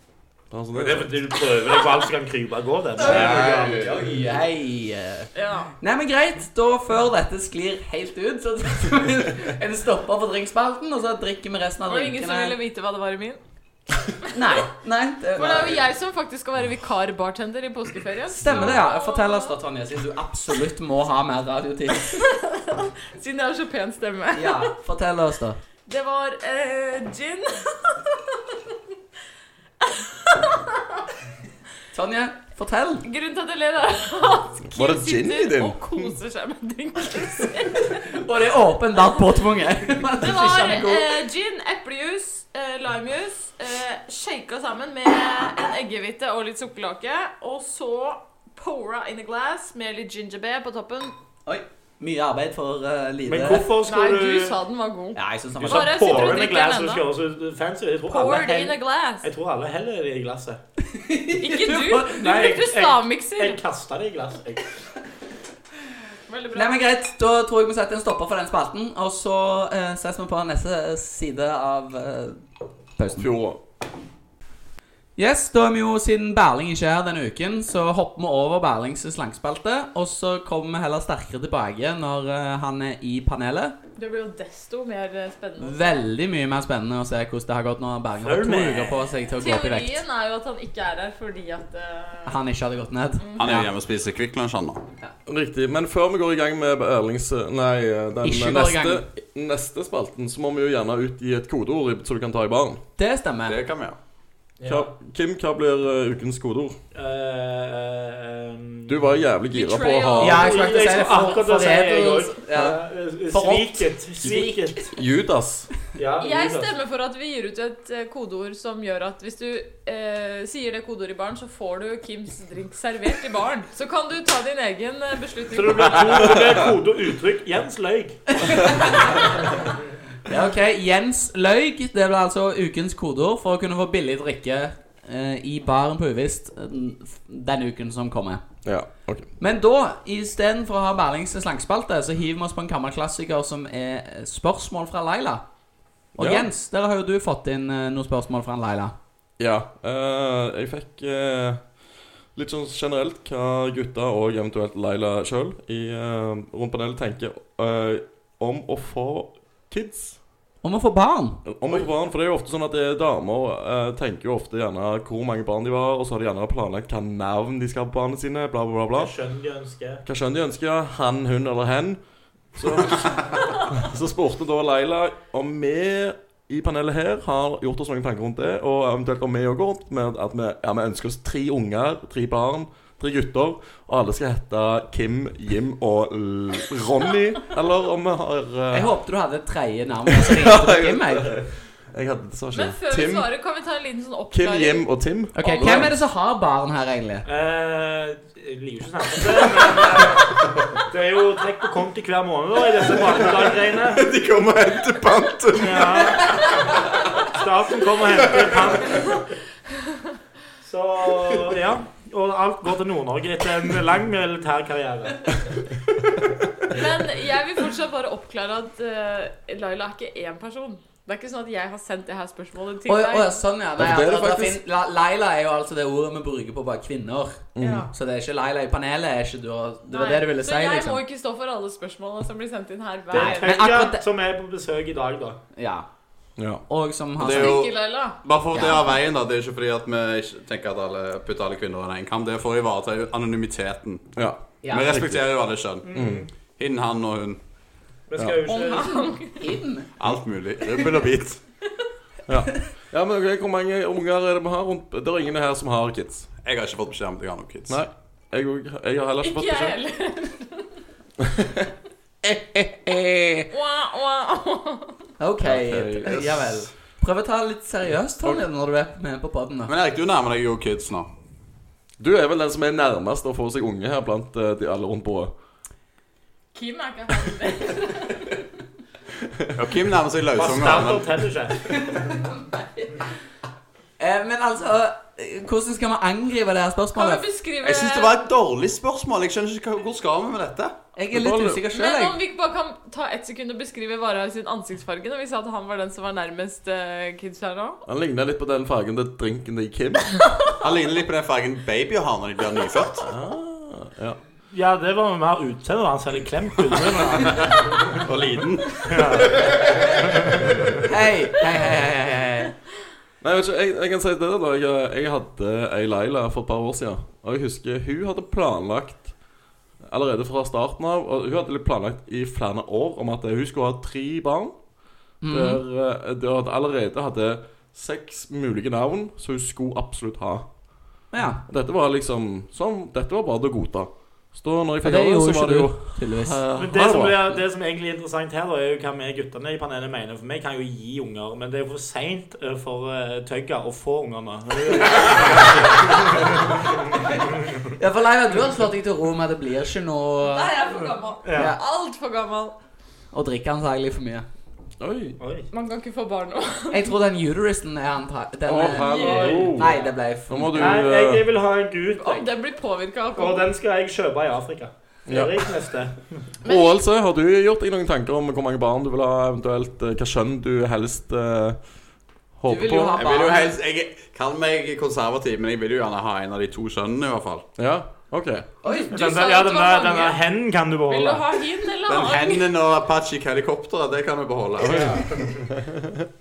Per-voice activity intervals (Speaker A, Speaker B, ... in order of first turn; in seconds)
Speaker A: 0.5-1.1, 3.1-3.6, 18.5-18.8, 34.7-36.1, 73.1-73.6, 95.2-102.8, 104.7-106.8, 108.9-110.5, 114.9-115.7, 138.6-139.3, 146.2-146.5, 149.4-151.6, 152.3-160.2, 161.4-169.1, 170.1-172.0, 172.5-188.9, 190.1-193.3, 194.3-195.9, 223.8-224.6, 227.5-227.9, 236.4-236.6, 244.2-245.3, 245.9-246.2, 252.3-256.3, 257.7-259.8, 261.2-261.7, 262.2-263.5, 265.4-266.6, 272.0-275.3, 291.1-291.6, 297.8-300.2, 303.0-304.2, 313.2-319.1, 319.8-324.6, 325.3-330.5, 331.4-337.2, 354.8-355.2, 358.4-359.8, 360.3-361.2, 365.1-365.4, 366.4-371.6, 372.4-373.1, 377.6-378.5, 384.6-386.1
Speaker B: 0.7-3.9, 53.2-54.6, 55.6-60.6, 62.2-64.6, 88.2-89.0, 104.6-104.9, 106.9-109.0, 110.3-114.9, 116.0-116.7, 125.5-128.8, 168.9-170.0, 197.2-204.0, 205.6-206.6, 207.2-209.2, 210.6-215.3, 233.1-235.4, 245.8-246.3, 248.1-249.0, 280.4-281.7, 304.5-308.0, 308.8-309.7, 336.5-346.6, 351.2-351.6, 355.2-355.5, 359.1-359.7, 360.5-362.3, 363.1-366.0, 378.7-381.2, 384.7-385.1
Speaker C: 3.0-5.3, 5.8-12.6, 14.3-15.8, 18.4-22.2, 24.3-25.6, 31.9-33.0, 37.9-41.2, 51.5-53.7, 55.1-56.2, 60.9-62.5, 66.5-72.4, 73.0-73.3, 75.2-83.8, 85.6-90.0, 92.2-93.7, 98.2-99.0, 103.0-103.6, 110.2-114.8, 128.4-129.3, 130.2-138.4, 139.4-145.4, 146.2-148.9, 160.6-161.4, 188.7-191.4, 195.3-197.2, 222.9-231.0, 233.1-234.0, 235.6-235.9, 236.7-237.6, 238.5-238.8, 244.6-244.9, 248.5-249.9, 265.2-269.7, 281.8-282.2, 284.0-287.2, 290.9-292.2, 310.8-312.5, 325.2-325.6, 331.1-331.4, 334.8-336.4, 347.8-350.5, 353.1-354.3, 356.7-360.8, 372.4-373.6
Speaker D: 3.1-3.7, 93.4-94.8, 103.5-104.0, 203.9-206.2, 237.2-244.1, 244.7-245.9, 246.6-247.4, 250.0-251.4, 256.4-257.8, 269.7-271.1, 279.5-281.2, 287.6-290.8, 300.6-303.0, 308.0-309.5, 373.0-377.4, 381.9-385.2
Speaker E: 5.3-5.7, 11.9-13.4, 15.4-19.5, 22.1-24.7, 25.9-28.0, 29.8-30.7, 33.0-38.0, 40.2-51.1, 53.8-57.0, 58.1-59.3, 61.4-63.6, 66.3-66.8, 84.0-86.1, 89.4-92.4, 93.2-93.6, 109.5-111.3, 116.2-126.4, 192.5-195.8, 216.7-223.4, 227.6-227.9, 229.9-233.9, 237.2-238.2, 248.5-249.4, 259.2-260.7, 263.5-264.9, 276.5-278.3, 286.9-288.1, 291.7-297.8, 350.3-352.5, 355.5-356.9, 358.7-359.6, 361.9-363.5, 366.4-366.8, 378.6-380.2, 380.9-382.5